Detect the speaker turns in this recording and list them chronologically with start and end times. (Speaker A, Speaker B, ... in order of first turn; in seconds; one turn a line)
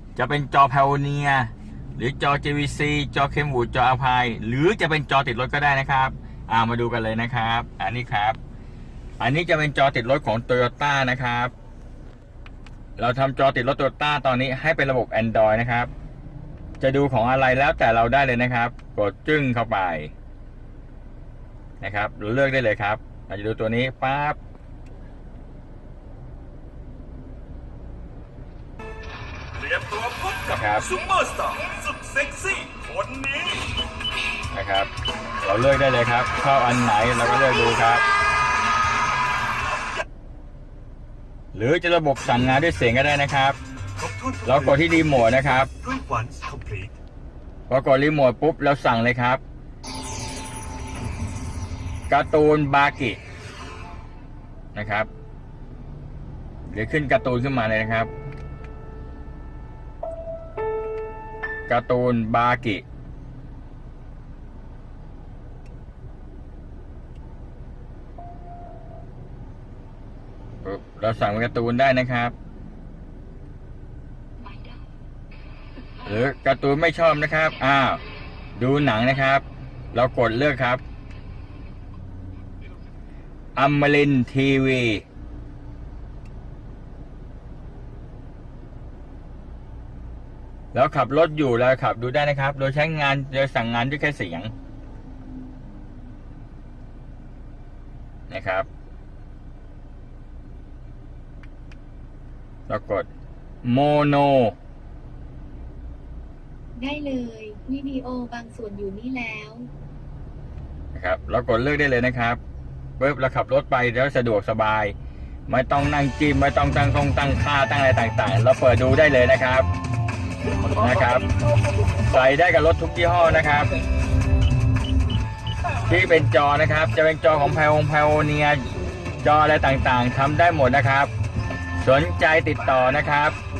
Speaker A: 0.1-8.4
Speaker A: 9.2-11.5
Speaker A: 13.0-15.9
Speaker A: 16.8-20.1
Speaker A: 21.8-24.4
Speaker B: 29.6-33.6
Speaker A: 30.5-30.9
Speaker A: 34.5-34.9
Speaker A: 35.4-38.0
Speaker A: 41.5-43.6
Speaker B: 44.0-47.0
Speaker A: 44.4-45.7
Speaker A: 47.7-49.4
Speaker A: 52.1-53.2
Speaker A: 54.7-55.1
Speaker A: 56.7-58.1
Speaker A: 61.7-62.8
Speaker A: 70.6-72.3
Speaker A: 76.0-78.0
Speaker A: 78.5-80.8
Speaker A: 83.5-85.0
Speaker A: 90.7-94.5
Speaker A: 98.3-98.7
Speaker A: 102.7-103.1
Speaker A: 103.6-104.5
Speaker C: 106.8-109.7
Speaker A: 110.9-112.4
Speaker A: 113.0-114.9
Speaker A: 115.5-119.7
Speaker A: 120.7-121.3
Speaker A: 122.0-123.7
Speaker A: 125.8-128.7
Speaker A: 129.2-131.1
Speaker A: 131.8-133.4